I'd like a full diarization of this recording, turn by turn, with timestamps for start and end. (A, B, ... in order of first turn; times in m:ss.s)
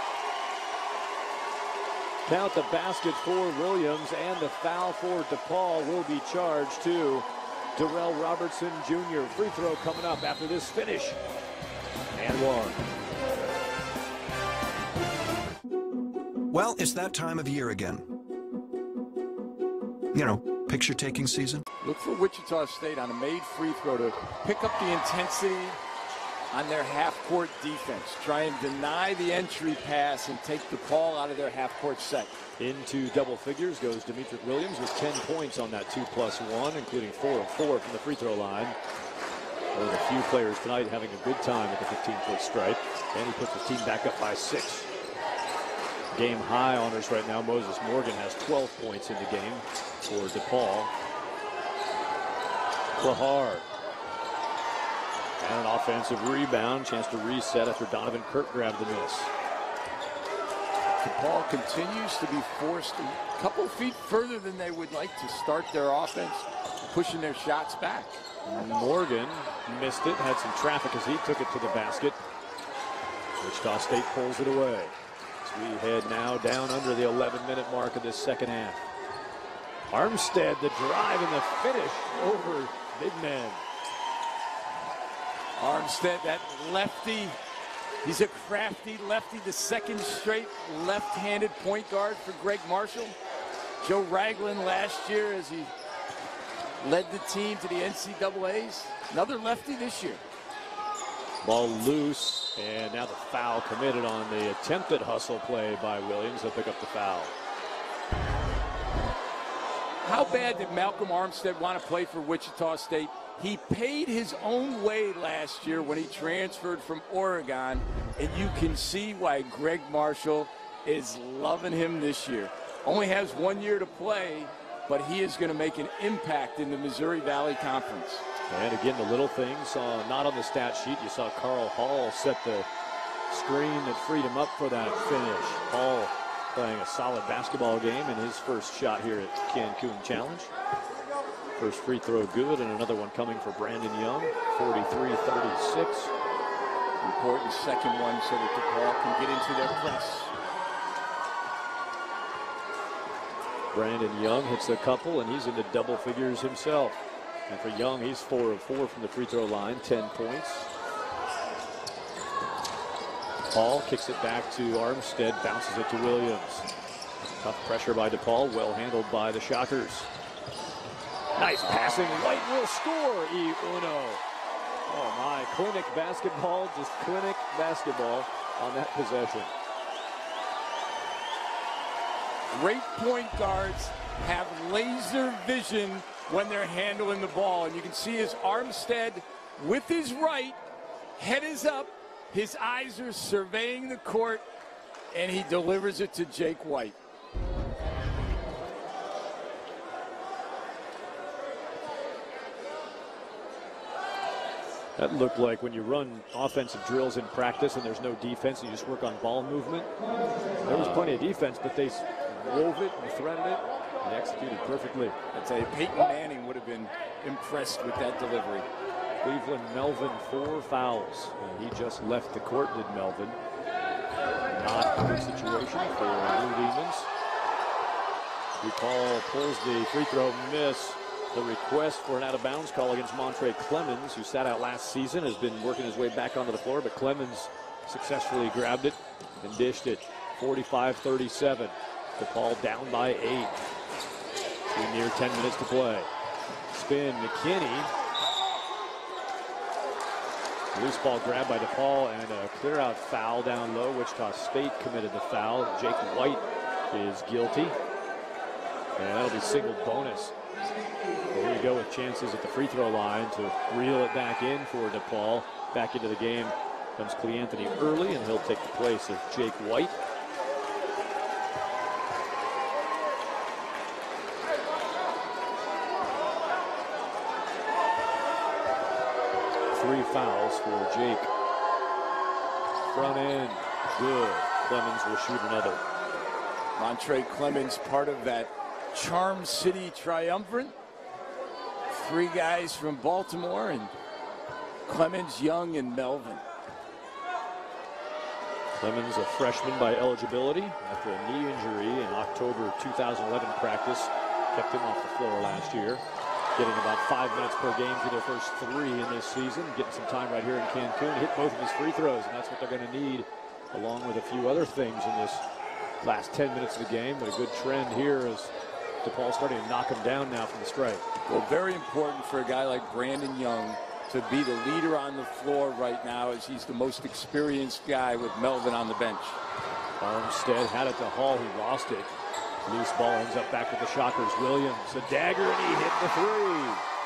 0:02.3-0:11.2 A
0:12.1-0:12.8 A
0:16.5-0:18.1 B
0:20.1-0:21.6 B
0:21.8-0:25.8 C
0:26.5-0:32.4 C
0:32.6-0:38.8 A
0:39.7-0:44.9 A
0:46.1-0:50.9 A
0:53.0-0:53.7 A
0:55.4-0:59.3 A
1:01.0-1:08.2 C
1:08.4-1:12.2 A
1:13.4-1:18.8 A
1:19.9-1:23.6 A
1:25.6-1:27.4 C
1:28.0-1:33.2 C
1:33.8-1:35.7 C
1:36.8-1:40.2 C
1:41.4-1:47.3 A
1:50.0-2:08.3 C
2:08.5-2:12.7 A
2:13.3-2:20.5 A
2:21.6-2:26.1 A
2:27.0-2:30.3 C
2:33.7-2:40.7 A
2:43.5-2:46.7 A
2:47.2-2:50.1 A
2:51.4-2:54.2 A
2:54.9-2:59.5 A
3:02.5-3:10.6 C
3:11.2-3:14.4 C
3:15.1-3:17.0 C
3:25.0-3:29.9 A
3:30.6-3:35.2 A
3:30.7-3:31.1 C
3:35.3-3:38.7 C
3:39.2-3:43.4 A
3:44.5-3:47.1 A
3:48.6-4:03.6 A
4:04.7-4:06.1 A
4:06.7-4:07.9 A
4:10.7-4:17.8 A
4:19.0-4:20.3 A
4:21.3-4:30.0 A
4:39.7-4:41.3 A
4:42.9-4:45.8 A
4:46.8-4:50.8 C
4:51.9-4:53.9 C
4:54.9-4:56.4 C
4:58.8-5:06.0 A
5:06.6-5:15.4 A
5:16.0-5:21.1 A
5:21.3-5:29.4 C
5:30.0-5:32.1 A
5:32.7-5:36.8 A